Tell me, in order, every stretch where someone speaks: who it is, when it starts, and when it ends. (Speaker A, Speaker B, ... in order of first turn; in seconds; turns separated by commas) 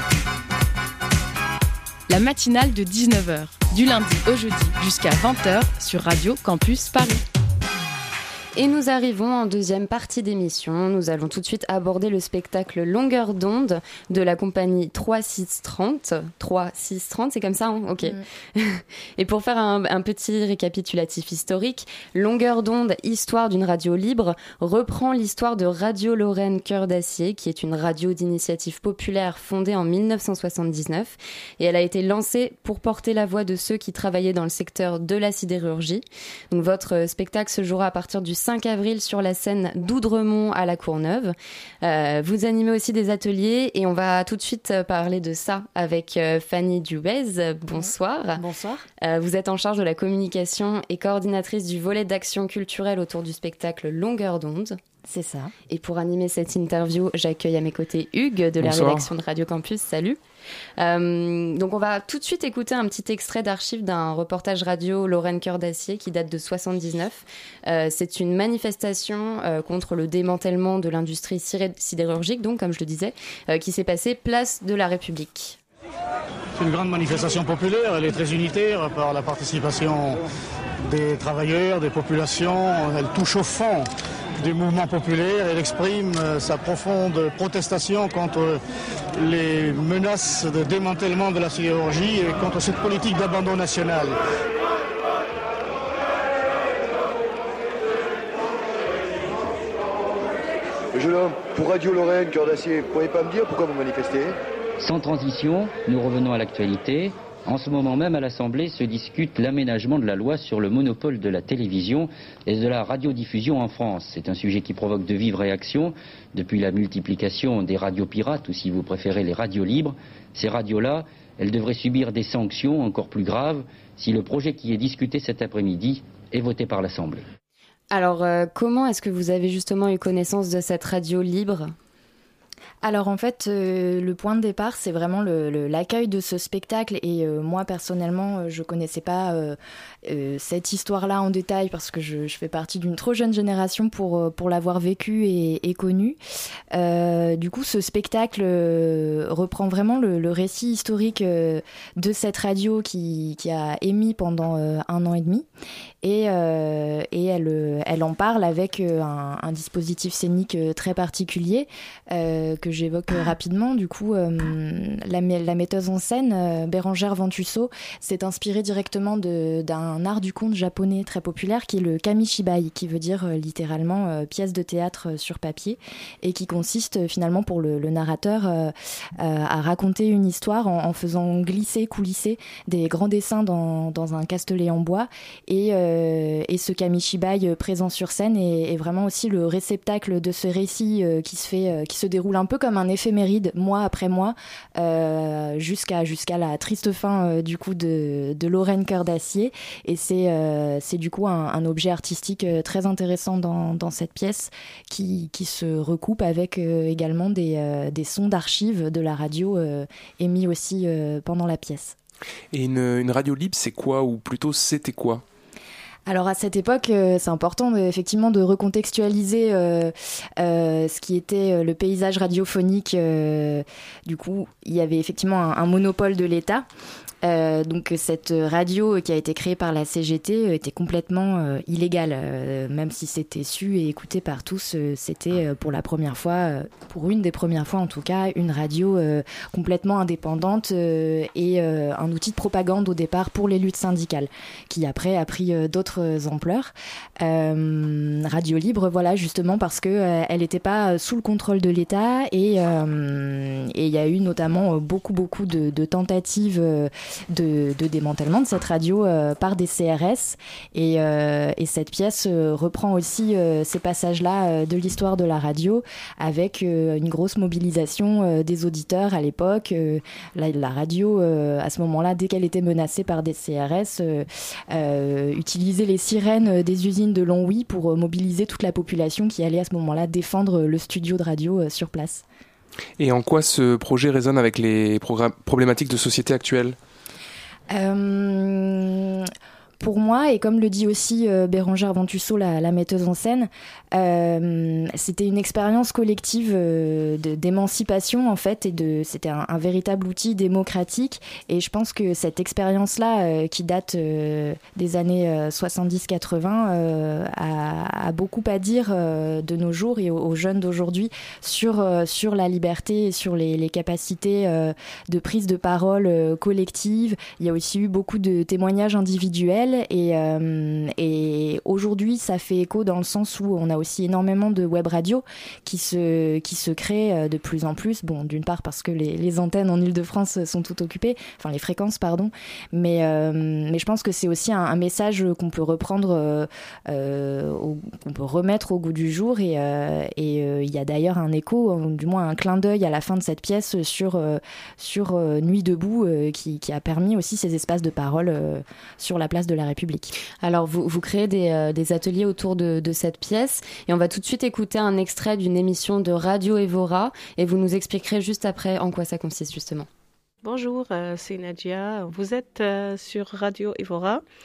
Speaker A: 2.1-7.2, Speaker B: 8.6-48.5, Speaker C: 47.7-48.8, Speaker B: 49.0-54.8, Speaker C: 55.1-55.5, Speaker B: 55.7-60.2, Speaker B: 60.8-75.6, Speaker D: 76.5-80.2, Speaker D: 80.8-88.6, Speaker D: 89.1-94.2, Speaker E: 100.9-104.3, Speaker F: 104.8-127.2, Speaker B: 127.9-131.7, Speaker C: 132.8-146.2, Speaker C: 146.7-155.5, Speaker C: 156.0-211.9, Speaker G: 212.5-215.2, Speaker C: 216.1-226.7, Speaker C: 227.2-282.2, Speaker G: 283.0-286.8, Speaker C: 287.7-350.1, Speaker B: 350.4-359.9, Speaker H: 360.4-364.2